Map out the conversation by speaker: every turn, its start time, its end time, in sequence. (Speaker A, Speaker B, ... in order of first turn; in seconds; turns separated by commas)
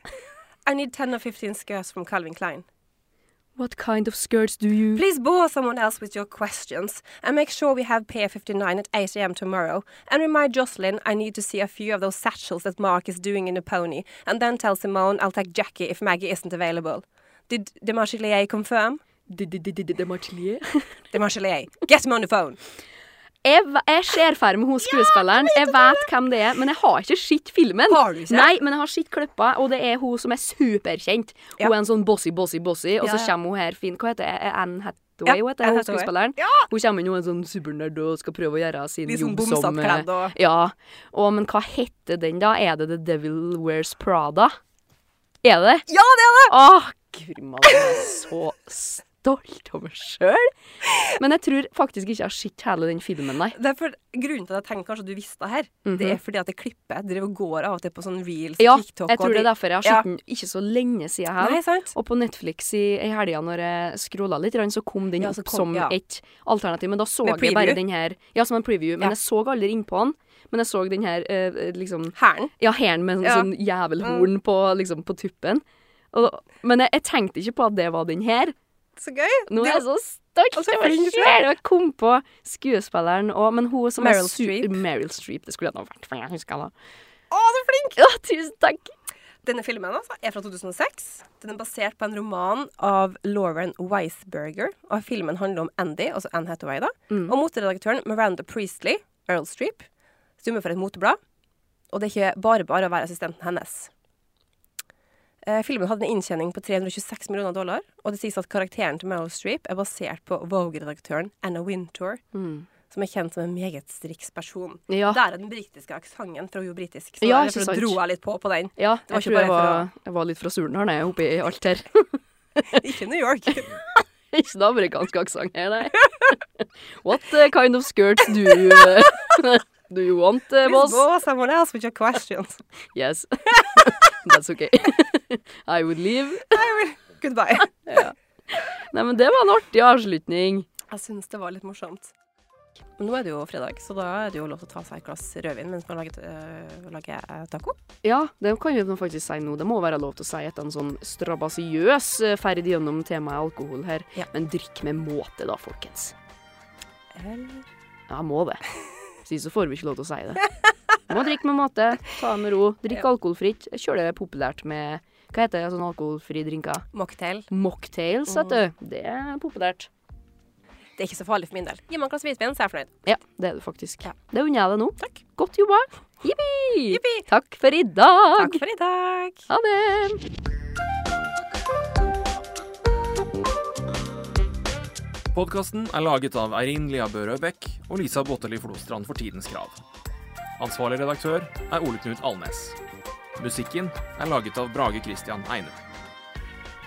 Speaker A: 0.7-2.6, Speaker B: 3.5-5.0, Speaker A: 4.9-19.0, Speaker B: 19.3-21.2, Speaker A: 21.1-22.6, Speaker B: 23.4-44.6, Speaker A: 24.8-26.1, Speaker A: 27.9-28.5, Speaker A: 33.0-33.3, Speaker A: 35.2-36.7, Speaker A: 39.0-40.3, Speaker B: 45.4-45.9, Speaker A: 45.9-46.5, Speaker B: 46.5-50.5, Speaker B: 51.0-53.5, Speaker A: 53.5-60.0, Speaker B: 55.8-56.2, Speaker B: 58.6-78.5, Speaker A: 61.4-61.9, Speaker A: 65.2-65.9, Speaker A: 67.2-67.8, Speaker A: 72.1-72.5, Speaker A: 73.2-73.5, Speaker A: 74.0-74.3, Speaker A: 79.0-79.8, Speaker B: 79.5-86.7, Speaker A: 80.5-81.4, Speaker A: 84.0-84.8, Speaker A: 87.3-88.0, Speaker B: 88.0-88.9, Speaker A: 89.4-99.9, Speaker A: 100.4-101.2, Speaker A: 101.9-103.9, Speaker A: 105.4-112.2, Speaker B: 112.3-112.7, Speaker A: 112.9-119.9, Speaker B: 114.9-115.2, Speaker B: 117.2-118.0, Speaker B: 118.8-122.8, Speaker A: 122.7-123.8, Speaker B: 124.3-126.4, Speaker B: 126.9-131.0, Speaker A: 130.6-132.6, Speaker B: 132.9-136.6, Speaker A: 136.5-137.7, Speaker B: 137.8-140.7, Speaker A: 140.9-142.1, Speaker A: 143.0-147.8, Speaker B: 148.0-156.1, Speaker A: 157.1-157.7, Speaker B: 158.1-158.6, Speaker B: 159.2-160.5, Speaker B: 161.1-166.8, Speaker A: 166.9-167.5, Speaker B: 167.5-169.9, Speaker A: 168.3-168.6, Speaker A: 171.0-172.9, Speaker B: 173.0-178.6, Speaker A: 176.9-177.3, Speaker A: 178.3-179.5, Speaker B: 179.5-180.2, Speaker C: 185.3-189.8, Speaker C: 190.6-192.8, Speaker C: 193.4-195.8